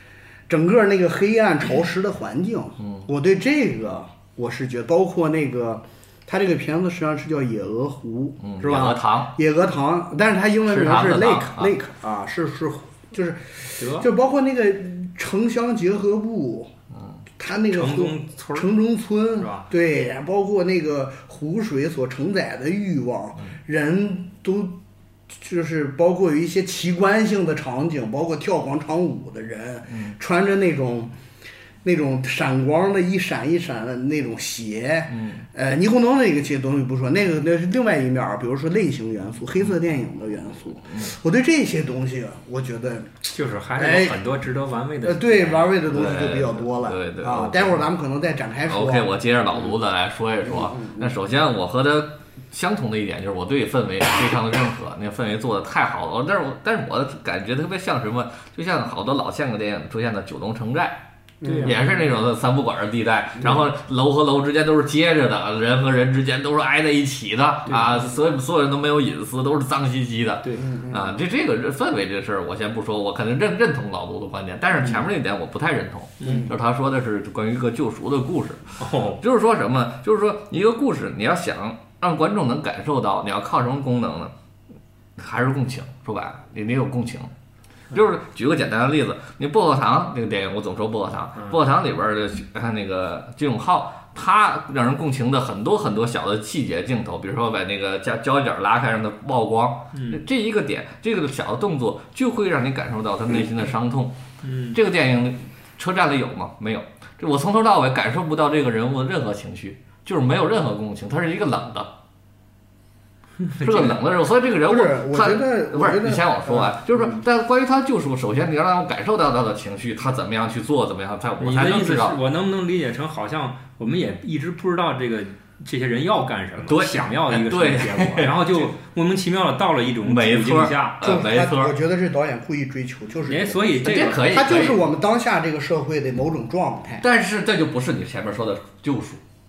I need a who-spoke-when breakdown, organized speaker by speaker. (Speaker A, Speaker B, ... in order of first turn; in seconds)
Speaker A: 0.5-16.7, 17.4-24.8, 25.3-31.1, 31.8-44.2, 45.0-49.1, 50.5-51.1, 61.4-61.9, 70.6-71.2, 76.2-76.5, 114.7-117.2, 131.0-137.0
Speaker B: 2.8-3.1, 8.4-9.3, 10.7-11.8, 29.9-30.2, 35.1-35.5, 40.9-41.1, 45.9-47.9, 48.7-61.0, 61.6-84.3, 85.2-87.3, 87.9-104.2, 104.7-111.9, 113.6-122.2, 126.7-128.4, 130.1-131.7, 133.8-134.8, 137.0-139.2
Speaker C: 13.8-14.1, 17.7-18.7, 19.4-19.7, 43.3-45.8, 61.4-61.9, 67.7-68.0, 76.2-76.5, 78.8-79.2, 99.9-100.2, 104.4-104.8, 113.4-114.0, 121.4-131.0, 133.3-134.7